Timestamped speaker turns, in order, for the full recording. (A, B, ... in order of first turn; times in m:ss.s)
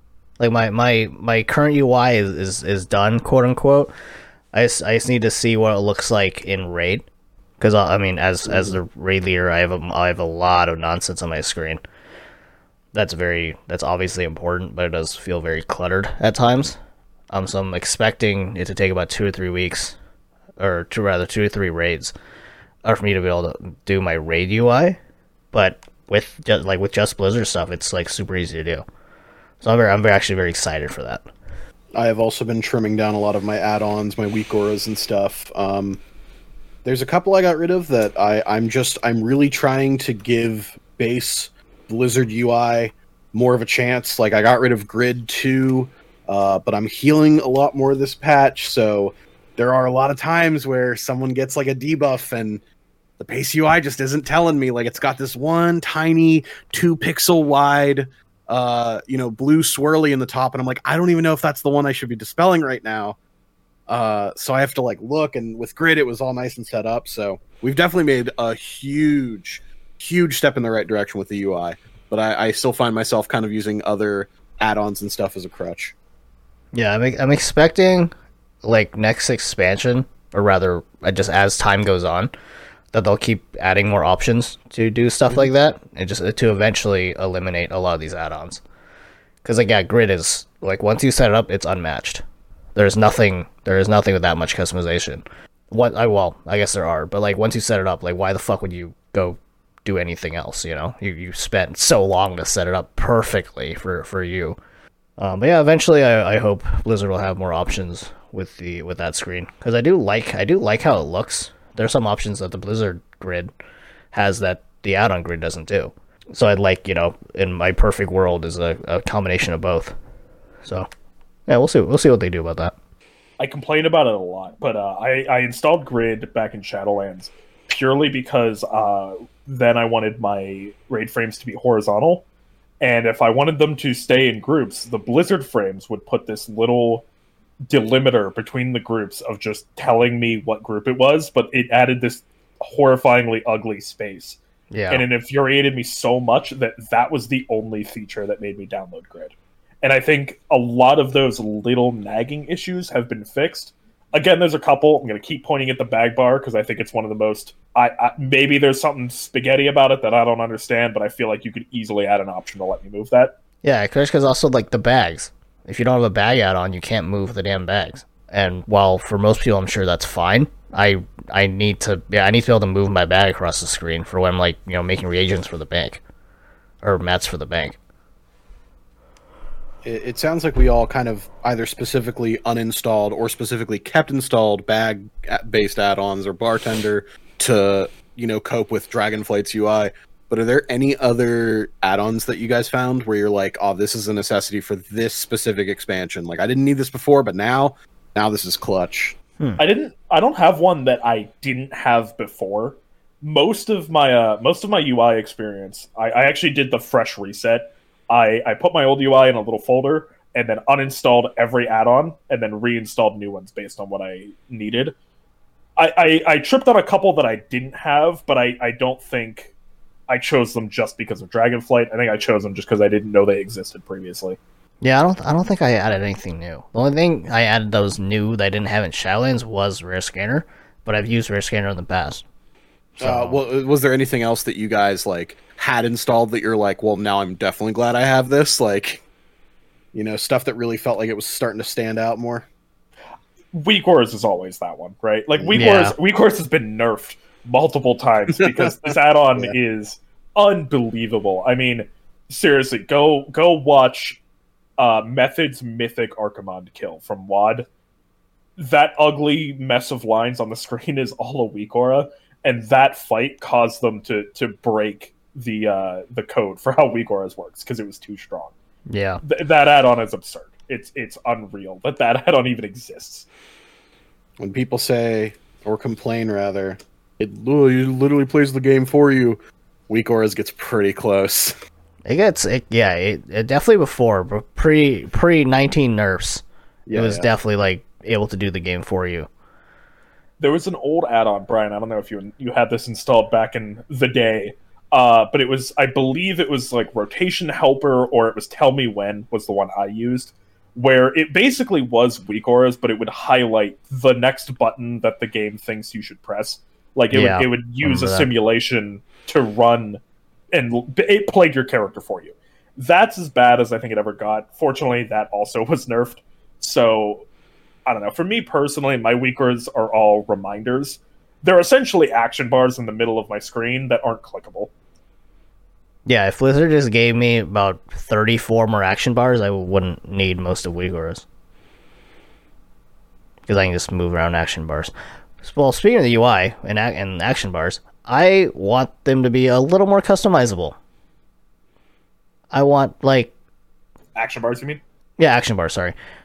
0:00.4-0:03.9 A
0:04.5-0:07.0 A
0:07.6-0:11.8 A
0:08.5-0:08.8 B
0:12.9-0:16.8 A
0:17.3-0:20.0 A
0:20.6-0:22.1 A
0:22.8-0:25.0 A
0:25.5-0:28.8 A
0:29.6-0:31.3 A
0:31.9-0:36.0 B
0:36.8-0:52.6 B
0:53.2-1:03.2 B
1:03.9-1:15.9 B
1:16.7-1:22.3 A
1:22.9-1:28.6 A
1:29.4-1:32.2 A
1:32.7-1:44.6 A
1:45.2-1:53.5 A
1:54.1-1:59.9 A
2:01.5-2:02.7 A
2:03.4-2:12.2 C
2:12.8-2:17.0 C
2:17.7-2:24.4 C
2:24.7-2:25.0 A
2:24.9-2:43.3 C
2:43.6-2:56.0 A
2:56.8-2:57.8 A
2:59.8-3:19.2 B
3:19.6-3:34.9 C
3:35.8-3:39.5 C
3:40.1-3:44.4 C
3:44.8-3:52.2 A
3:53.0-3:59.0 B
3:53.0-3:53.4 A
3:59.9-4:02.5 B
4:03.5-4:14.2 C
4:05.6-4:05.9 A
4:08.4-4:09.5 B
4:14.8-4:17.7 C
4:18.6-4:28.5 C
4:28.9-4:29.2 A
4:29.2-4:33.3 C
4:34.4-4:41.5 B
4:42.0-4:46.4 A
4:46.9-4:47.3 B
4:46.9-4:49.3 A
4:50.4-5:10.0 C
5:07.1-5:08.3 A
5:10.5-5:17.2 C
5:17.8-5:24.7 C
5:26.0-5:31.2 A
5:33.5-5:40.8 A
5:42.5-5:43.3 A
5:44.1-5:44.8 C
5:45.2-5:45.9 A